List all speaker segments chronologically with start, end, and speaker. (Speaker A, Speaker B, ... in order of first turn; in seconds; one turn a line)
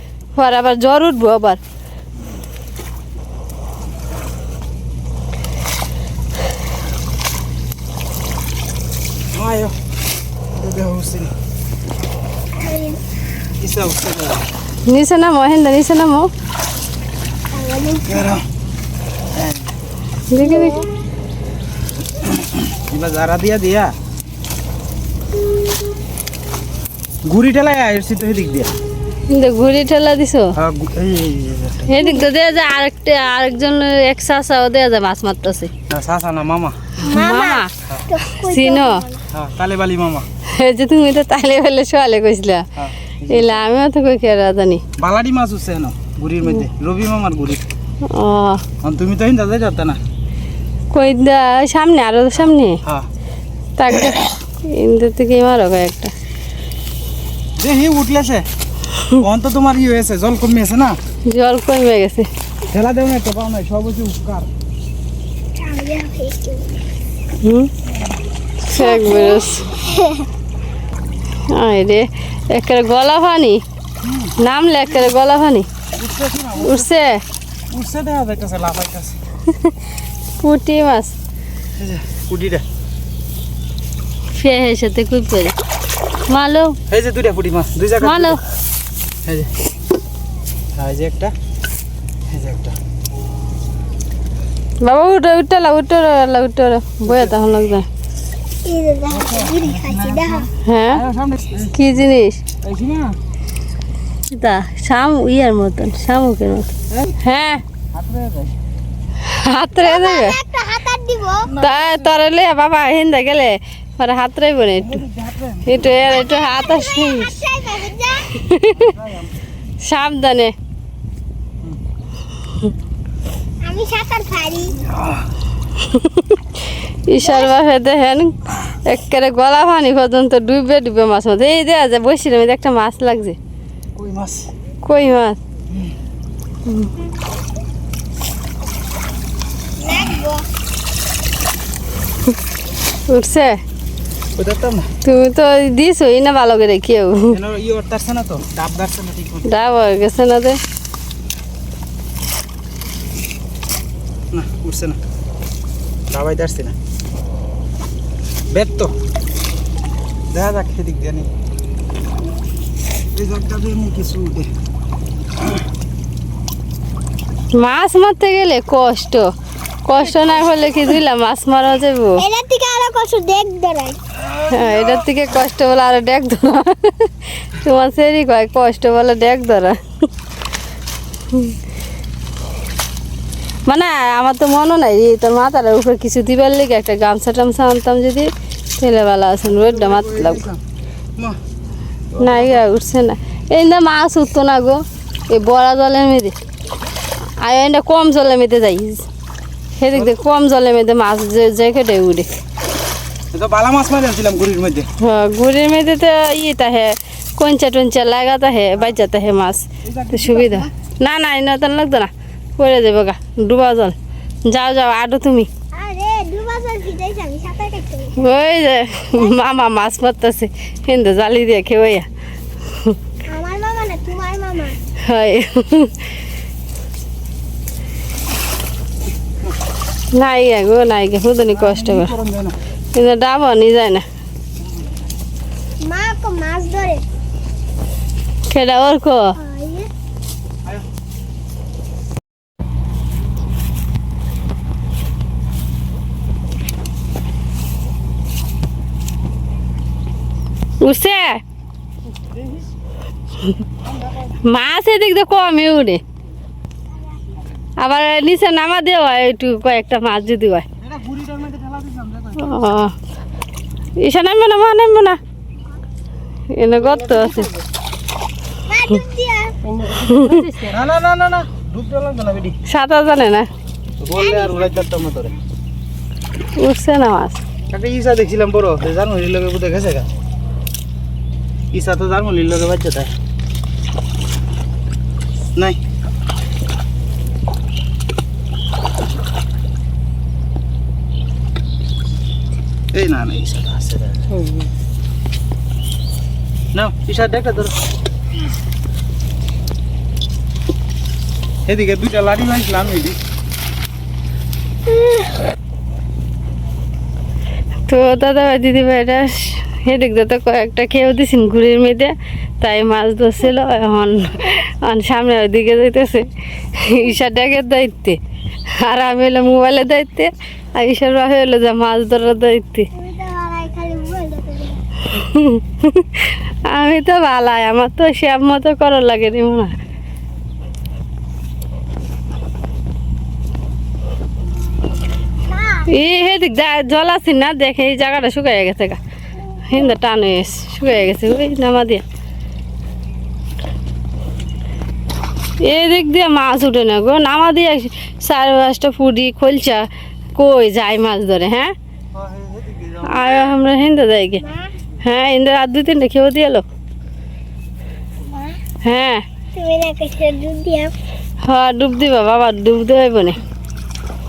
Speaker A: 0.3-1.6
Speaker B: 9.3-9.7
Speaker B: 10.5-11.3
Speaker C: 12.5-13.0
Speaker B: 13.6-14.5
Speaker A: 14.8-16.3
Speaker C: 17.5-18.2
Speaker B: 18.1-18.4
Speaker B: 19.3-19.8
Speaker A: 20.3-20.8
Speaker C: 20.4-20.9
Speaker B: 22.2-23.9
Speaker B: 27.2-28.7
Speaker A: 29.3-30.5
Speaker B: 30.6-31.9
Speaker A: 31.9-35.7
Speaker B: 35.9-36.9
Speaker A: 37.0-37.7
Speaker C: 37.0-39.2
Speaker A: 38.4-39.0
Speaker B: 39.3-40.3
Speaker A: 40.5-42.7
Speaker B: 42.8-43.6
Speaker A: 43.3-44.8
Speaker B: 45.0-47.6
Speaker A: 48.0-48.6
Speaker B: 48.8-50.0
Speaker A: 50.9-52.8
Speaker A: 53.8-56.1
Speaker B: 57.6-58.5
Speaker B: 59.2-61.0
Speaker A: 61.3-62.3
Speaker B: 62.7-64.5
Speaker C: 65.6-66.7
Speaker A: 67.4-67.7
Speaker A: 68.7-69.7
Speaker C: 68.8-70.3
Speaker A: 71.5-73.6
Speaker B: 74.0-74.3
Speaker A: 74.4-75.7
Speaker B: 76.0-76.9
Speaker A: 76.6-77.2
Speaker B: 77.7-79.2
Speaker A: 80.4-81.1
Speaker B: 81.8-82.6
Speaker A: 84.3-85.5
Speaker A: 86.3-86.8
Speaker B: 86.9-88.4
Speaker A: 88.0-88.4
Speaker B: 89.2-89.5
Speaker B: 90.8-91.3
Speaker B: 92.3-92.8
Speaker A: 94.8-97.9
Speaker B: 97.0-97.3
Speaker C: 98.7-100.5
Speaker B: 99.1-101.7
Speaker A: 100.6-101.0
Speaker A: 101.7-102.4
Speaker B: 102.6-103.2
Speaker A: 104.3-107.6
Speaker B: 107.9-108.5
Speaker A: 109.2-110.3
Speaker C: 109.8-111.5
Speaker B: 111.5-112.2
Speaker A: 111.6-115.0
Speaker B: 114.8-116.0
Speaker A: 115.7-117.3
Speaker C: 116.0-118.3
Speaker A: 118.4-118.9
Speaker B: 118.7-119.3
Speaker A: 119.8-120.5
Speaker C: 123.6-124.8
Speaker B: 124.8-125.3
Speaker A: 125.8-126.4
Speaker A: 127.1-133.4
Speaker C: 127.2-127.5
Speaker B: 133.9-134.5
Speaker A: 134.8-135.4
Speaker C: 139.8-140.4
Speaker A: 143.1-143.6
Speaker B: 144.3-144.9
Speaker A: 145.0-147.3
Speaker B: 147.3-149.5
Speaker A: 149.4-150.6
Speaker B: 154.3-155.0
Speaker B: 156.1-156.7
Speaker B: 158.5-158.9
Speaker B: 160.3-161.3
Speaker B: 163.1-164.5
Speaker A: 167.5-169.3
Speaker A: 169.8-172.2
Speaker C: 170.2-170.5
Speaker C: 172.2-174.0
Speaker B: 174.2-175.1
Speaker A: 174.5-179.8
Speaker A: 183.7-190.4
Speaker B: 189.4-190.6
Speaker B: 192.1-192.7
Speaker A: 192.2-196.3
Speaker A: 197.4-199.0
Speaker A: 199.8-202.3
Speaker B: 203.3-204.9
Speaker A: 205.0-213.9
Speaker B: 209.8-210.7
Speaker A: 214.4-215.5
Speaker C: 215.7-218.2
Speaker A: 218.2-222.1
Speaker A: 222.7-223.0
Speaker C: 223.3-224.8
Speaker A: 225.1-226.1
Speaker A: 230.1-232.1
Speaker B: 231.5-232.5
Speaker A: 232.9-234.0
Speaker B: 234.6-234.9
Speaker C: 235.8-237.0
Speaker A: 238.5-239.3
Speaker C: 239.3-239.9
Speaker A: 250.8-251.4
Speaker B: 253.8-254.3
Speaker A: 254.4-256.0
Speaker A: 257.8-260.6
Speaker B: 260.8-262.7
Speaker A: 262.4-262.9
Speaker A: 264.0-265.2
Speaker A: 266.5-267.5
Speaker B: 266.9-267.6
Speaker C: 268.6-269.6
Speaker B: 269.8-272.5
Speaker A: 269.9-270.7
Speaker A: 272.7-273.5
Speaker B: 274.0-275.3
Speaker C: 274.1-274.9
Speaker A: 276.6-277.4
Speaker B: 277.7-280.1
Speaker B: 281.7-283.1
Speaker B: 292.9-294.4
Speaker B: 296.7-297.7
Speaker B: 301.6-303.2
Speaker C: 304.9-305.3
Speaker A: 307.9-318.2
Speaker A: 318.7-322.9
Speaker C: 322.9-324.8
Speaker A: 325.1-329.8
Speaker C: 335.4-335.9
Speaker A: 335.9-339.0
Speaker A: 339.7-342.0
Speaker A: 345.6-351.7
Speaker B: 352.1-353.3
Speaker A: 353.0-354.4
Speaker C: 354.4-354.7
Speaker A: 355.0-356.6
Speaker C: 358.3-358.6
Speaker A: 358.8-359.2
Speaker C: 359.5-360.9
Speaker A: 361.4-363.4